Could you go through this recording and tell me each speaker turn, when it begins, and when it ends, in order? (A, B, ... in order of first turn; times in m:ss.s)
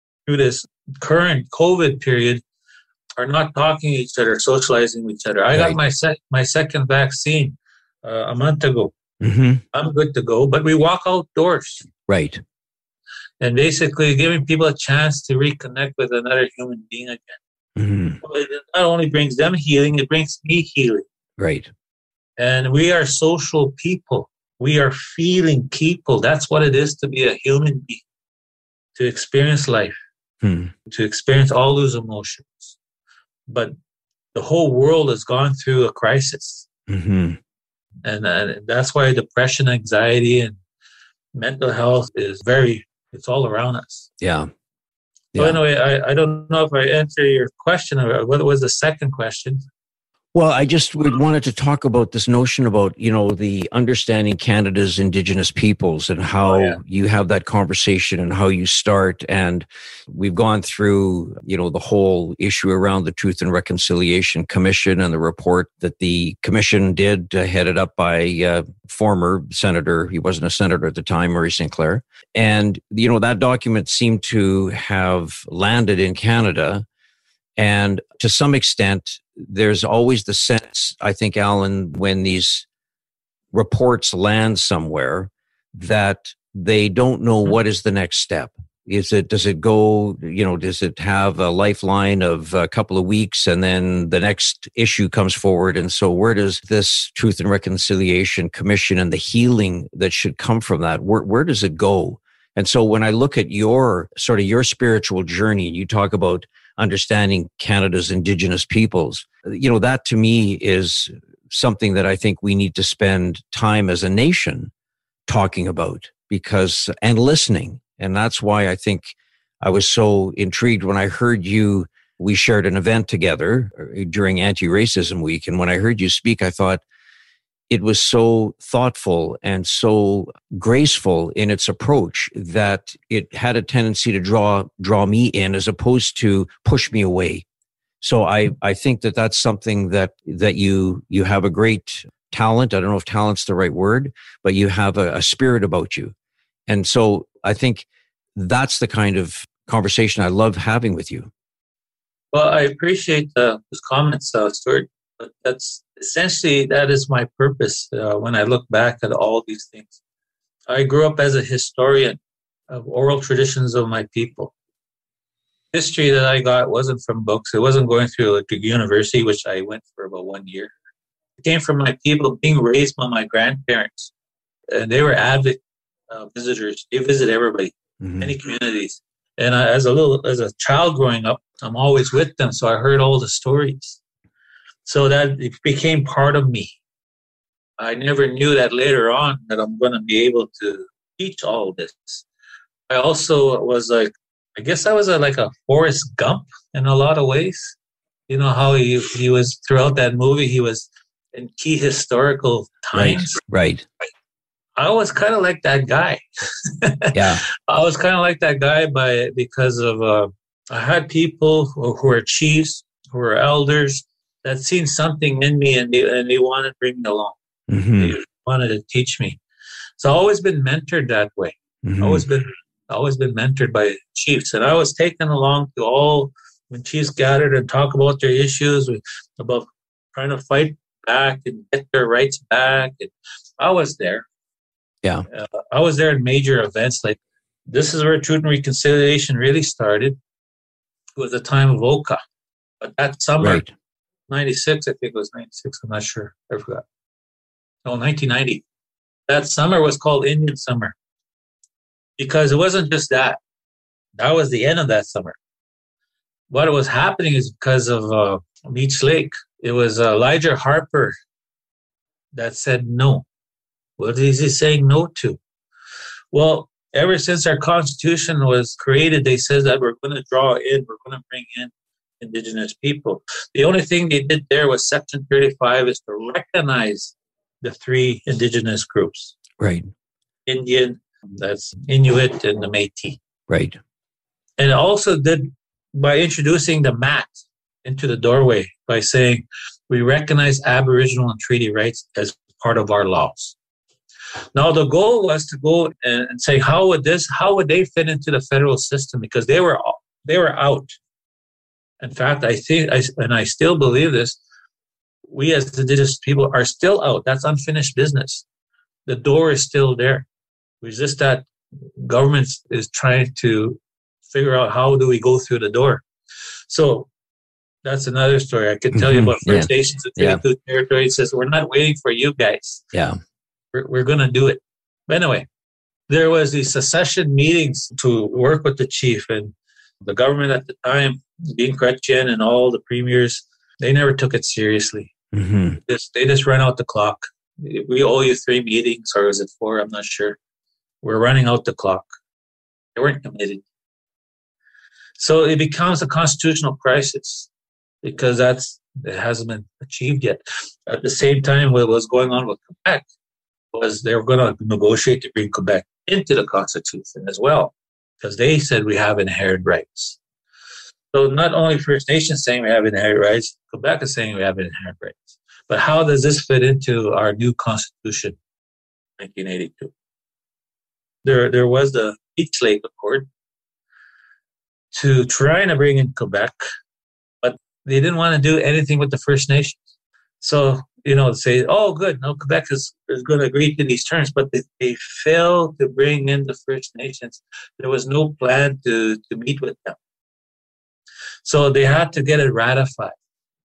0:00.3-0:02.4 A
0:03.2-0:08.9 A
0:09.2-0:09.6 B
0:09.7-0:11.9 A
0:12.1-0:12.4 B
0:13.4-0:17.4 A
0:17.8-0:18.2 B
0:18.2-0:21.0 A
0:21.4-0:21.7 B
0:22.4-0:28.0 A
0:29.0-0:30.0 A
0:30.4-0:30.7 B
0:30.9-0:32.8 A
0:33.5-0:33.7 A
0:34.3-0:36.7 A
0:36.9-0:37.4 B
0:38.0-0:40.6 A
0:41.4-0:44.1 A
0:44.2-0:44.5 B
0:45.3-0:45.6 B
0:45.4-0:49.6 A
0:50.3-1:16.8 B
0:56.4-0:56.8 A
1:17.6-1:22.6 B
1:23.5-1:54.7 B
1:55.3-2:06.8 B
2:07.7-2:17.4 B
2:18.0-2:26.1 B
2:26.7-2:31.3 B
2:32.3-2:40.0 A
2:40.7-2:44.5 A
2:45.7-2:50.7 A
2:51.4-2:54.1 A
2:54.7-3:04.0 A
2:58.0-2:58.3 B
3:04.8-3:06.8 A
3:07.8-3:12.2 A
3:12.9-3:17.8 A
3:18.3-3:23.4 A
3:22.9-3:23.9 B
3:24.8-3:37.4 A
3:27.1-3:27.4 B
3:37.7-3:38.2 B
3:38.0-3:39.4 A
3:40.0-3:54.3 A
3:41.8-3:42.2 B
3:55.3-4:00.2 A
4:01.1-4:02.2 A
4:02.8-4:03.6 A
4:03.4-4:03.7 B
4:04.3-4:06.8 A
4:07.8-4:08.6 A
4:09.3-4:11.0 A
4:12.2-4:13.4 A
4:14.1-4:15.4 A
4:16.5-4:21.1 A
4:22.3-4:23.3 A
4:24.0-4:25.4 A
4:26.3-4:39.4 A
4:39.6-4:39.9 B
4:40.5-4:43.2 A
4:43.5-4:43.8 B
4:44.6-4:53.6 A
4:54.6-5:01.0 A
5:02.0-5:04.4 A
5:05.3-5:08.4 A
5:09.1-5:10.3 A
5:10.8-5:16.0 A
5:16.7-5:17.1 A
5:17.8-5:22.8 A
5:18.9-5:20.4 B
5:22.9-5:23.2 B
5:23.7-5:25.5 A
5:26.1-5:35.1 A
5:35.3-5:35.8 B
5:35.8-5:40.4 A
5:41.0-5:42.1 A
5:43.0-5:43.6 A
5:45.2-5:47.5 A
5:48.0-5:53.1 A
5:53.7-6:00.2 A
6:01.1-6:08.4 A
6:09.2-6:09.9 A
6:11.2-6:13.3 A
6:14.9-6:16.6 A
6:17.4-6:19.8 A
6:20.4-6:30.0 A
6:31.4-6:33.2 A